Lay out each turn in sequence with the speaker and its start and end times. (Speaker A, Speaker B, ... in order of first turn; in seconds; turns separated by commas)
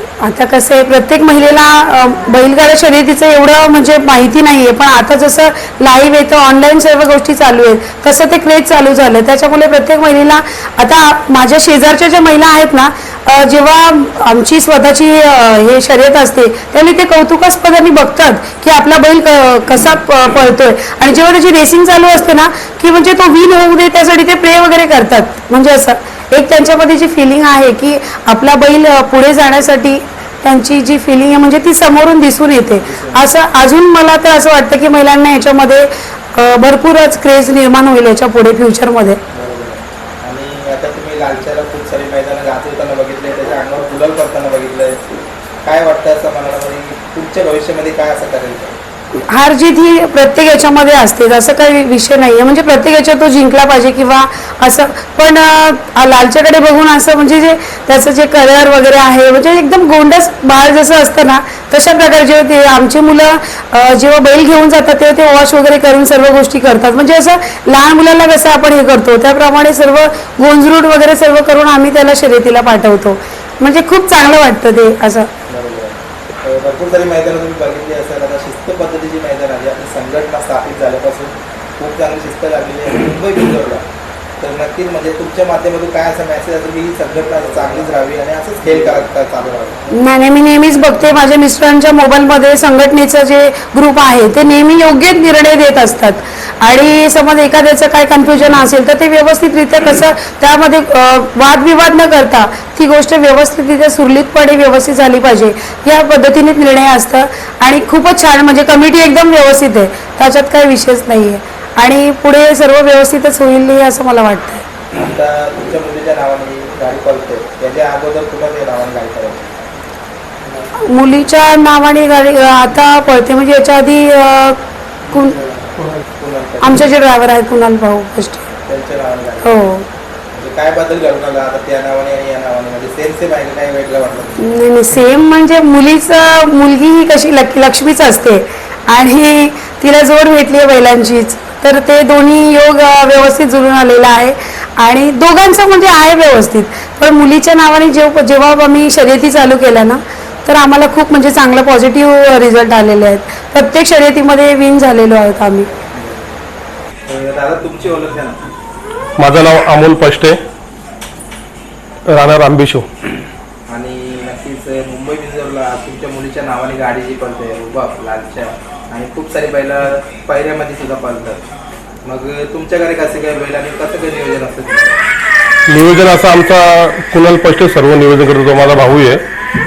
Speaker A: 0.2-39.2, Speaker B: 32.8-33.2, Speaker B: 39.3-45.0, Speaker B: 45.6-48.8, Speaker A: 49.3-75.3, Speaker B: 75.5-83.8, Speaker B: 84.4-89.8, Speaker A: 89.9-114.6, Speaker B: 114.9-119.6, Speaker A: 120.8-124.6, Speaker A: 125.1-125.4, Speaker B: 125.5-126.8, Speaker A: 126.6-128.4, Speaker B: 128.6-129.6, Speaker A: 129.4-129.8, Speaker B: 130.3-134.4, Speaker A: 134.4-155.7, Speaker B: 155.9-156.3, Speaker B: 157.1-158.4, Speaker C: 159.2-160.4, Speaker C: 162.1-162.9, Speaker B: 163.7-171.4, Speaker B: 172.0-174.9, Speaker C: 175.7-179.2